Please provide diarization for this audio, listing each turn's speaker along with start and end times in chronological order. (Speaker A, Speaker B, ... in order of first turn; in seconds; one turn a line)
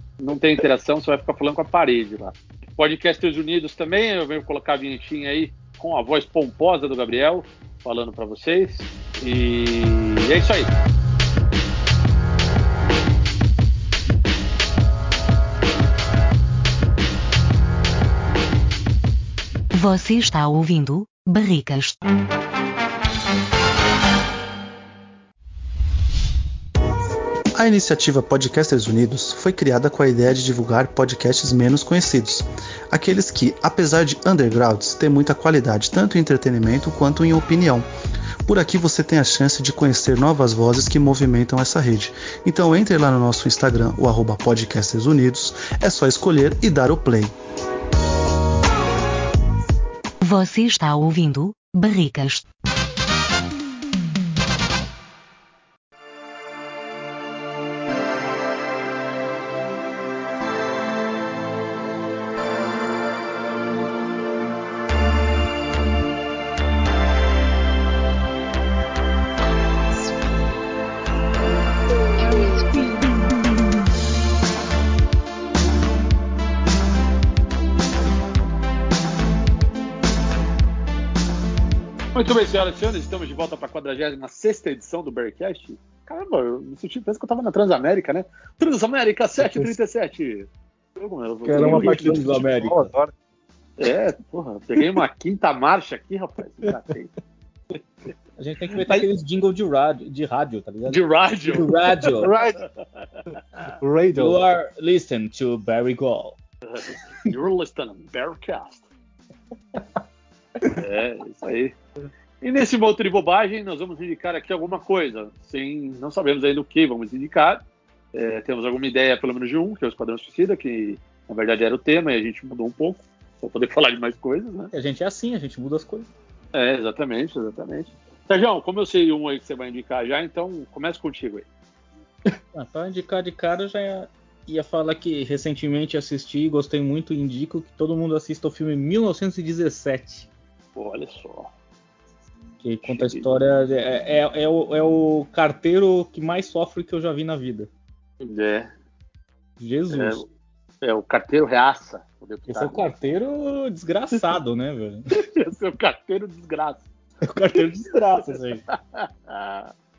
Speaker A: 0.2-10.7
Speaker B: 19.7-22.0
Speaker C: 27.6-37.9
Speaker C: 38.5-47.3
Speaker B: 50.2-52.4
Speaker A: 82.1-92.5
Speaker D: 89.4-89.8
Speaker D: 91.4-93.1
Speaker E: 91.5-92.9
Speaker A: 93.8-97.1
Speaker E: 98.4-102.3
Speaker A: 98.8-99.0
Speaker A: 100.9-102.7
Speaker D: 102.2-102.6
Speaker D: 103.8-104.4
Speaker E: 104.1-106.4
Speaker A: 106.6-108.8
Speaker A: 110.6-111.7
Speaker A: 112.4-124.7
Speaker E: 124.7-126.1
Speaker A: 126.5-131.4
Speaker E: 132.5-140.3
Speaker A: 140.8-141.5
Speaker E: 142.6-147.7
Speaker A: 142.9-143.2
Speaker A: 148.2-148.7
Speaker E: 149.6-150.2
Speaker A: 149.9-150.2
Speaker A: 150.8-152.8
Speaker E: 152.5-155.0
Speaker A: 155.2-156.8
Speaker E: 157.2-158.6
Speaker A: 158.7-159.7